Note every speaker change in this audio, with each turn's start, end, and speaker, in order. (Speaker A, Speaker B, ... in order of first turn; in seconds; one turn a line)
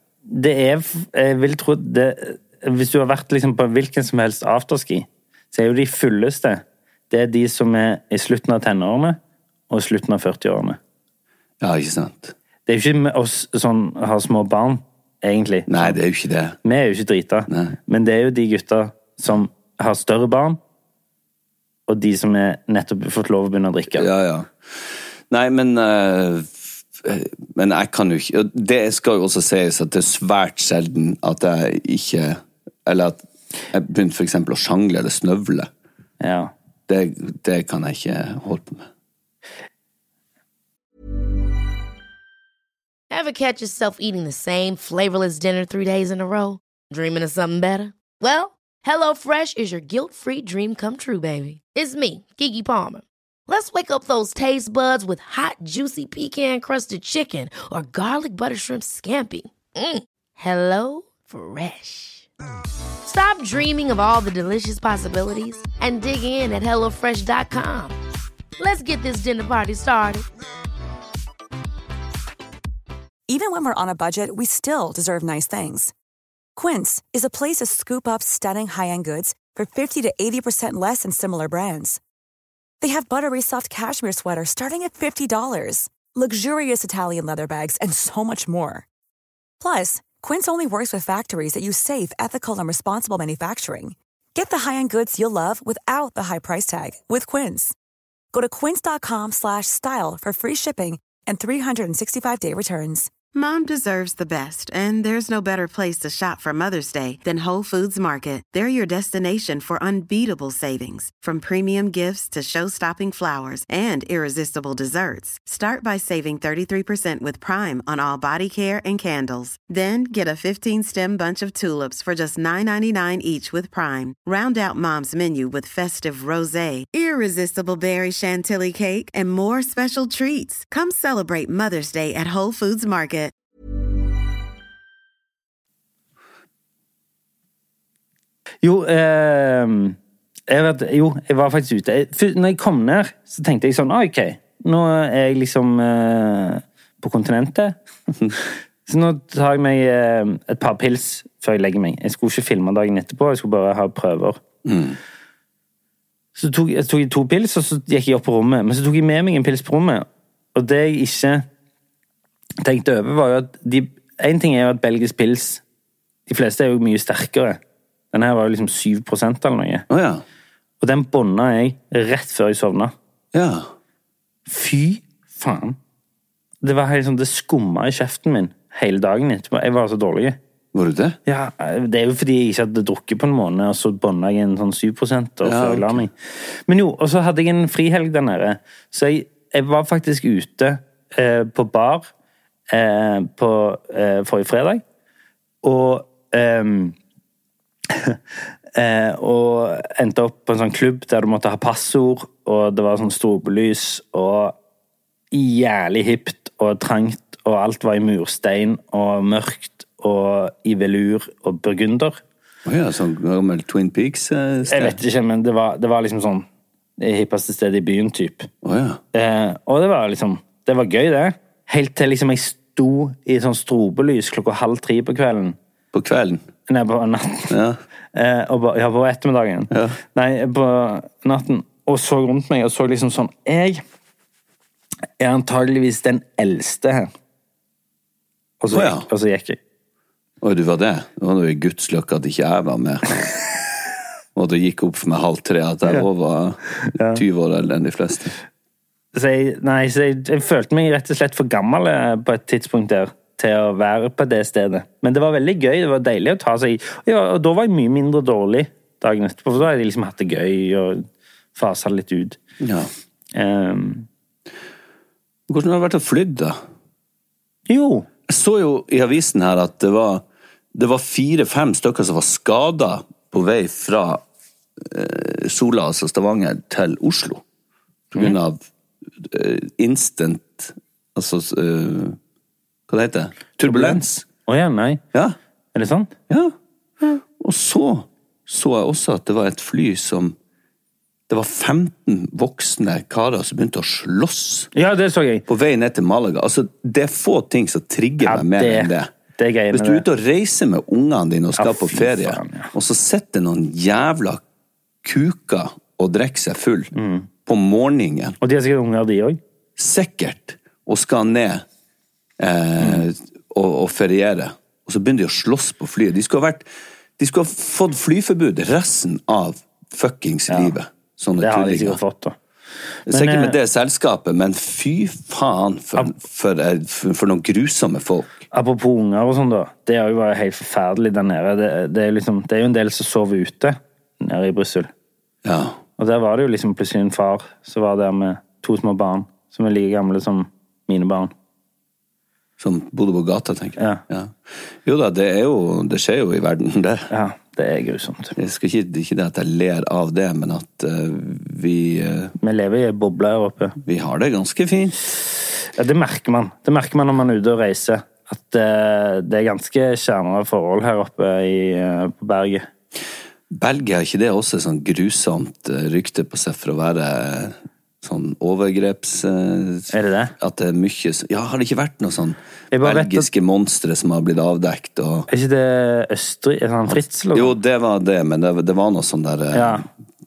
Speaker A: 0.3-9.2
Speaker A: 9.7-10.8
Speaker B: 11.6-12.3
Speaker A: 12.7-16.0
Speaker B: 15.7-16.6
Speaker A: 16.6-20.6
Speaker B: 17.5-17.8
Speaker A: 21.9-24.1
Speaker B: 23.9-35.7
Speaker A: 36.2-36.5
Speaker B: 36.9-38.9
Speaker C: 43.1-62.3
Speaker C: 63.0-68.0
Speaker C: 68.6-70.2
Speaker D: 73.3-75.9
Speaker D: 76.5-82.0
Speaker D: 82.8-88.8
Speaker D: 89.6-97.7
Speaker D: 98.3-103.1
Speaker E: 103.3-133.3
Speaker A: 138.6-147.8
Speaker A: 148.8-154.4
Speaker B: 154.6-155.0
Speaker A: 156.3-161.4
Speaker A: 162.6-165.6
Speaker A: 166.3-167.6
Speaker A: 168.1-169.8
Speaker B: 169.9-170.2
Speaker A: 170.8-172.9
Speaker B: 173.3-173.7
Speaker A: 174.5-175.8
Speaker A: 176.6-180.4
Speaker B: 180.7-181.2
Speaker A: 181.3-192.1
Speaker B: 185.4-186.0
Speaker A: 192.7-194.8
Speaker A: 195.6-196.9
Speaker A: 197.9-198.2
Speaker A: 198.7-204.5
Speaker A: 205.3-212.2
Speaker B: 212.6-215.0
Speaker A: 214.7-216.5
Speaker A: 217.0-218.5
Speaker B: 218.6-219.0
Speaker A: 219.1-225.6
Speaker B: 225.9-226.4
Speaker A: 226.7-227.5
Speaker B: 227.5-227.8
Speaker A: 228.1-233.8
Speaker B: 229.7-230.0
Speaker A: 235.2-237.1
Speaker A: 238.6-239.6
Speaker B: 238.7-239.1
Speaker B: 240.4-243.3
Speaker B: 244.3-248.3
Speaker A: 246.9-247.2
Speaker A: 249.1-262.4
Speaker B: 262.6-262.9
Speaker A: 263.3-264.1
Speaker B: 265.5-266.6
Speaker A: 267.7-268.1
Speaker B: 268.3-270.2
Speaker B: 270.7-274.2
Speaker B: 274.8-277.4
Speaker B: 278.1-278.6
Speaker B: 279.2-282.2
Speaker B: 282.9-284.2
Speaker A: 283.6-285.0
Speaker A: 285.7-286.1
Speaker B: 286.3-290.4
Speaker B: 291.3-294.7
Speaker A: 294.7-295.4
Speaker B: 295.5-299.1
Speaker A: 298.2-300.0
Speaker B: 299.7-304.4
Speaker A: 301.6-302.7
Speaker B: 305.0-306.9
Speaker A: 306.9-307.3
Speaker B: 307.4-308.4
Speaker A: 308.4-309.4
Speaker B: 309.8-311.6
Speaker B: 312.4-316.6
Speaker A: 312.8-313.0
Speaker B: 317.2-322.0
Speaker A: 320.5-320.7
Speaker A: 321.4-322.4
Speaker A: 323.1-323.6
Speaker B: 323.1-328.4
Speaker A: 328.5-334.9
Speaker B: 335.4-335.8
Speaker A: 336.0-341.3
Speaker B: 342.6-347.1
Speaker A: 347.1-348.4
Speaker B: 348.4-352.3
Speaker A: 352.4-353.8
Speaker B: 353.8-355.1
Speaker A: 355.7-362.7
Speaker B: 363.5-375.3
Speaker A: 369.9-370.3
Speaker A: 372.7-373.3
Speaker A: 375.3-377.5
Speaker B: 376.9-379.9
Speaker A: 379.5-379.8